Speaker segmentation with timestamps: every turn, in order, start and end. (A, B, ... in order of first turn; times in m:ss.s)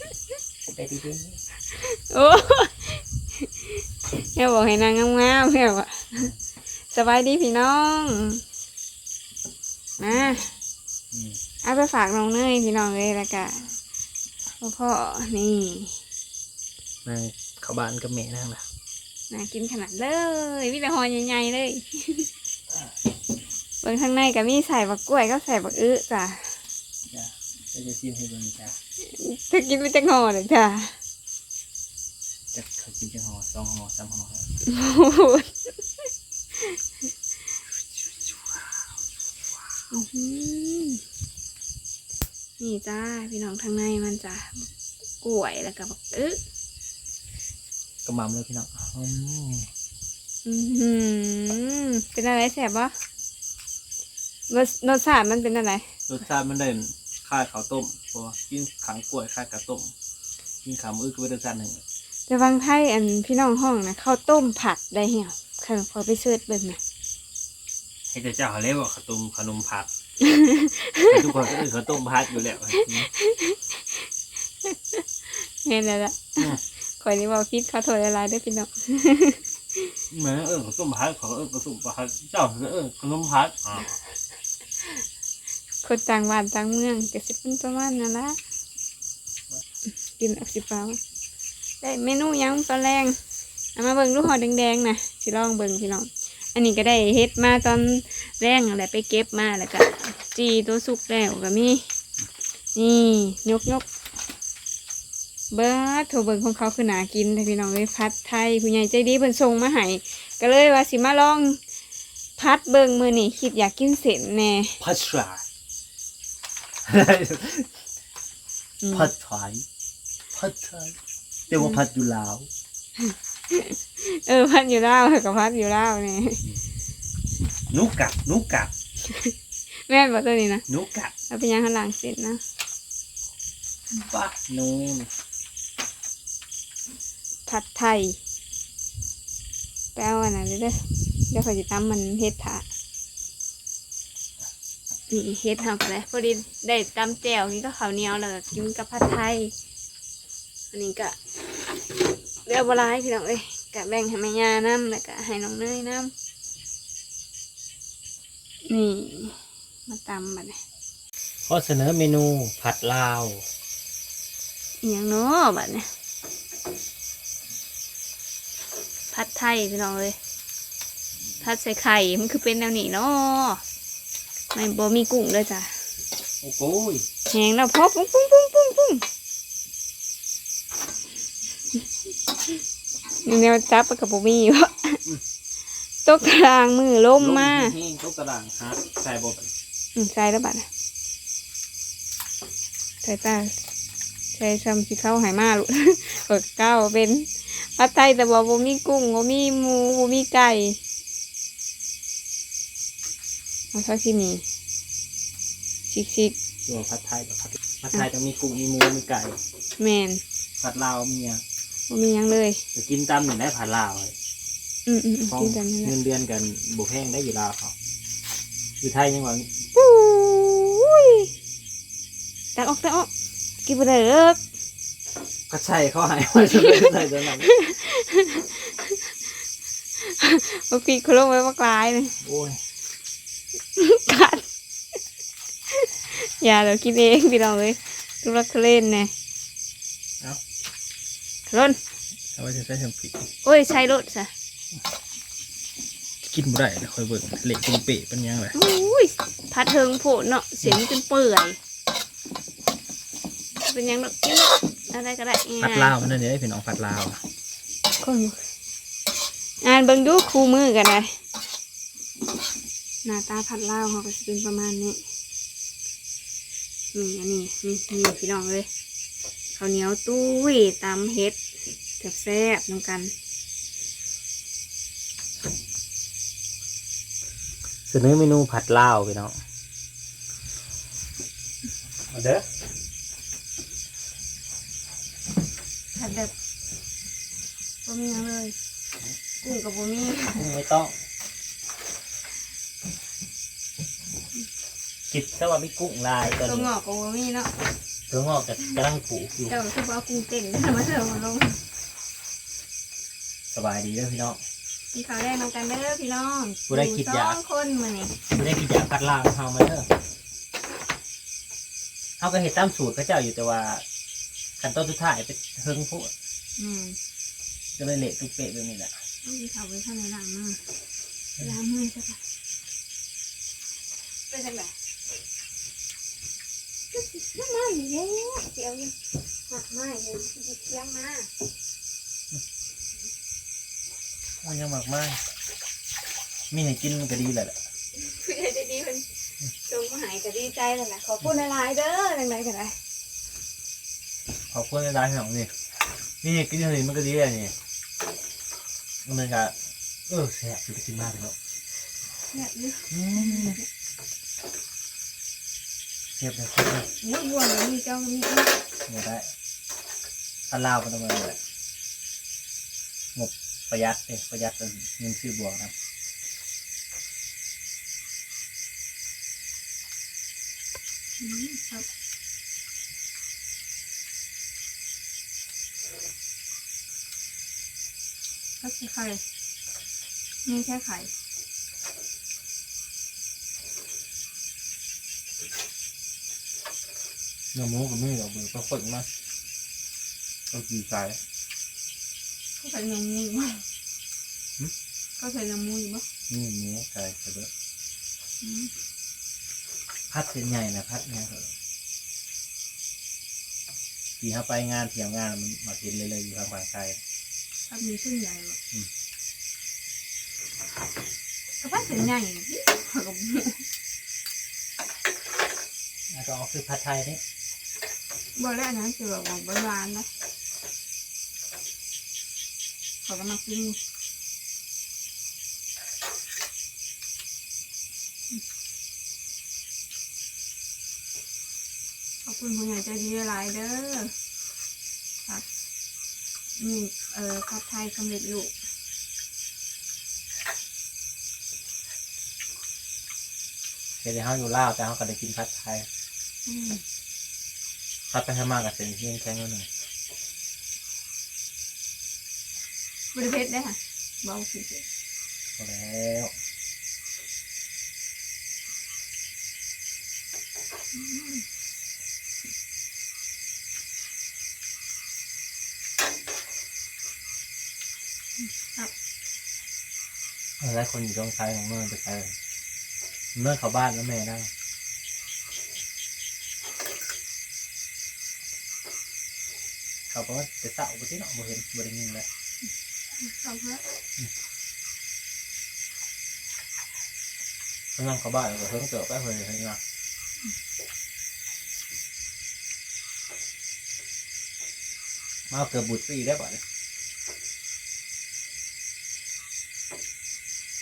0:00.7-0:01.4 A
0:01.7-0:06.3 B
0:06.9-0:08.4 B
0:10.0-0:10.5 B
0:11.1-0:11.4 A
0:11.6-0:13.7 B
0:14.6-0:16.0 B
0:17.0-0:18.7 A
0:19.3-0:22.3 B
0:23.8-0:26.6 B
0:27.1-0:28.8 A
0:29.0-0:31.0 B
0:32.5-0:34.5 A
0:34.6-0:35.8 B
0:37.8-0:38.9 A
0:39.9-0:41.0 B
0:42.6-0:44.7 B
0:45.2-0:46.4 B
0:48.1-0:49.7 A
0:50.4-0:53.0 B
0:54.5-0:55.9 B
0:56.1-0:59.9 A
1:00.6-1:01.8 A
1:02.3-1:06.8 B
1:08.1-1:09.9 A
1:10.2-1:11.5 B
1:11.0-1:13.1 A
1:12.7-1:14.1 B
1:14.6-1:20.0 B
1:20.1-1:23.9 A
1:25.8-1:28.4 B
1:30.2-1:31.0 B
1:31.8-1:33.2 B
1:33.8-1:41.9 B
1:42.8-1:43.9 B
1:45.5-1:51.6 B
1:52.4-1:54.8 B
1:54.8-1:55.4 A
1:56.8-1:57.8 A
1:58.8-1:59.1 B
1:58.9-1:59.6 A
2:00.3-2:01.0 A
2:01.5-2:02.5 A
2:01.5-2:01.8 B
2:03.0-2:06.4 B
2:07.7-2:08.7 A
2:09.0-2:10.6 B
2:10.7-2:11.1 A
2:11.3-2:12.4 B
2:13.9-2:15.1 A
2:17.5-2:18.2 B
2:20.0-2:22.7 B
2:25.1-2:29.5 B
2:30.7-2:31.2 B
2:32.4-2:36.1 B
2:38.7-2:40.6 B
2:41.5-2:43.4 A
2:44.8-2:45.9 B
2:49.1-2:50.2 B
2:51.4-2:53.6 B
2:54.5-2:55.8 B
2:56.4-2:57.0 A
2:57.3-2:59.1 B
3:03.2-3:05.0 B
3:06.1-3:07.8 B
3:07.2-3:09.5 A
3:10.0-3:10.7 B
3:13.0-3:13.5 B
3:14.3-3:20.8 B
3:23.7-3:24.4 B
3:25.9-3:26.4 B
3:26.7-3:29.4 A
3:29.8-3:30.2 B
3:30.6-3:31.4 A
3:31.9-3:32.6 B
3:32.8-3:34.2 A
3:34.9-3:36.0 B
3:35.3-3:37.7 A
3:38.8-3:39.6 A
3:39.8-3:41.3 B
3:42.6-3:43.1 B
3:43.6-3:44.4 B
3:45.5-3:47.5 A
3:46.8-3:49.1 B
3:50.0-3:52.2 B
3:52.2-3:52.6 A
3:53.8-3:54.5 B
3:55.7-3:59.1 B
4:01.5-4:01.8 B
4:02.4-4:03.3 A
4:03.4-4:04.3 B
4:06.2-4:08.6 A
4:08.5-4:11.6 B
4:13.6-4:16.0 B
4:15.6-4:17.2 A
4:17.9-4:18.4 B
4:19.6-4:21.2 B
4:23.0-4:25.0 B
4:26.9-4:28.7 B
4:29.6-4:31.4 B
4:32.0-4:33.1 B
4:37.9-4:39.4 A
4:42.1-4:42.4 A
4:46.0-4:46.3 B
4:47.8-4:48.6 B
4:49.4-4:50.5 B
4:50.3-4:51.0 A
4:55.1-4:56.7 A
4:56.4-4:57.5 B
4:58.1-4:59.6 A
4:59.5-5:01.6 B
5:03.5-5:04.4 A
5:04.9-5:08.2 B
5:06.7-5:07.4 A
5:08.3-5:09.9 A
5:12.2-5:13.8 A
5:14.6-5:16.1 A
5:16.6-5:17.0 B
5:17.8-5:18.9 A
5:19.2-5:20.6 B
5:21.4-5:22.2 B
5:24.3-5:24.8 B
5:26.9-5:31.3 B
5:34.4-5:35.2 A
5:36.5-5:37.6 A
5:38.0-5:39.1 B
5:39.6-5:42.8 B
5:44.5-5:45.5 A
5:46.2-5:47.6 A
5:49.0-5:49.6 A
5:50.1-5:51.4 A
5:52.3-5:53.7 B
5:52.9-5:53.6 A
5:56.2-5:56.9 A
5:57.0-5:58.6 B
5:58.9-5:59.3 A
6:00.5-6:01.4 A
6:03.2-6:05.7 A
6:11.2-6:11.9 B
6:18.6-6:19.2 B
6:20.4-6:21.1 B
6:27.5-6:29.1 A
6:30.5-6:31.2 A
6:32.6-6:33.6 B
6:35.2-6:36.0 B
6:36.3-6:37.5 A
6:38.4-6:38.7 B
6:40.1-6:41.5 A
6:44.2-6:47.0 A
6:47.7-6:48.6 B
6:51.6-6:53.6 B
6:56.1-6:57.2 A
6:58.4-7:00.1 B
7:03.0-7:03.8 B
7:12.2-7:14.1 B
7:16.6-7:18.5 B
7:24.0-7:25.9 A
7:26.5-7:26.8 B
7:28.1-7:29.7 A
7:33.1-7:34.8 B
7:35.6-7:36.3 A
7:40.9-7:41.4 B
7:48.4-7:48.9 B
7:50.6-7:52.4 A
7:53.4-7:54.5 A
8:00.1-8:02.3 A
8:03.2-8:03.9 B
8:08.0-8:09.8 A
8:15.5-8:16.6 A